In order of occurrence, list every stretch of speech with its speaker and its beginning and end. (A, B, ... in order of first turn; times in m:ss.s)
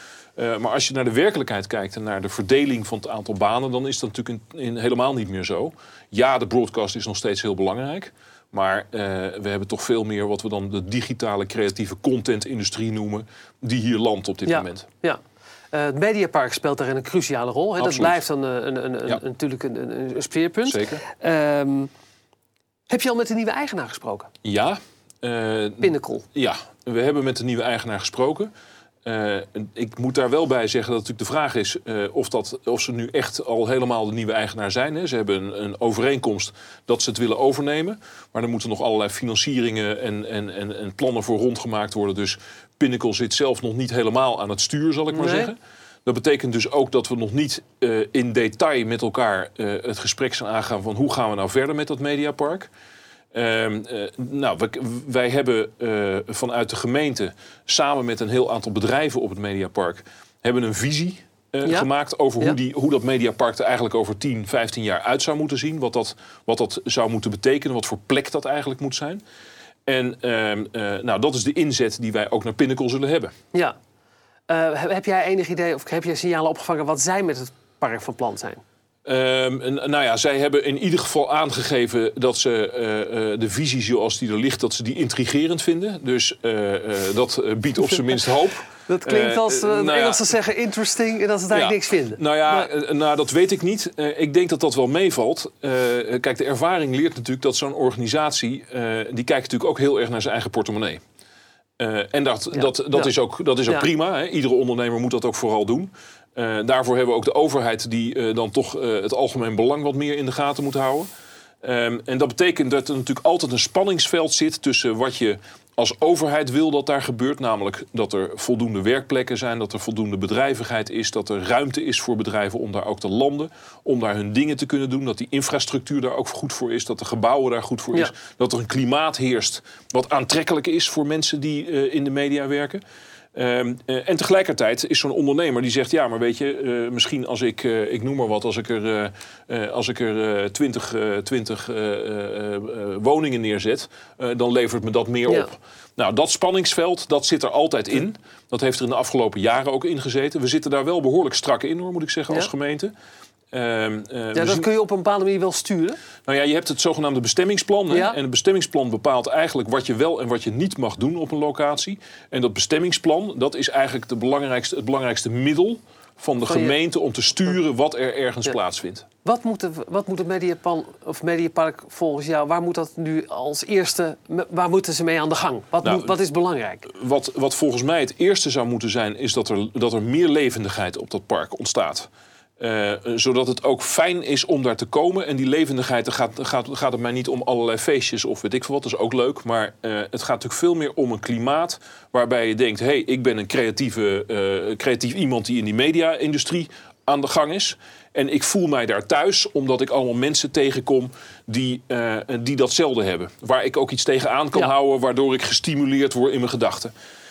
0:00.4-0:14.9 A
0:14.5-0:15.2 B
0:15.7-0:21.9 B
0:17.8-0:18.2 A
0:20.6-0:21.0 A
0:22.9-0:24.3 B
0:24.4-0:28.5 A
0:25.8-0:26.2 B
0:29.0-0:52.7 A
0:45.1-0:45.5 B
0:53.3-1:09.2 A
1:09.9-1:13.3 A
1:14.5-1:18.6 B
1:19.0-1:30.2 A
1:28.8-1:32.7 B
1:31.5-1:41.0 A
1:41.8-1:51.1 A
1:42.5-1:43.1 B
1:51.6-2:12.8 A
2:13.3-2:32.9 A
2:33.5-2:34.7 A
2:34.3-2:36.0 B
2:36.2-2:49.0 A
2:37.9-2:38.2 B
2:46.4-2:46.8 B
2:49.2-2:56.9 B
2:55.8-2:56.1 A
2:56.9-3:02.1 A
3:02.6-3:26.9 A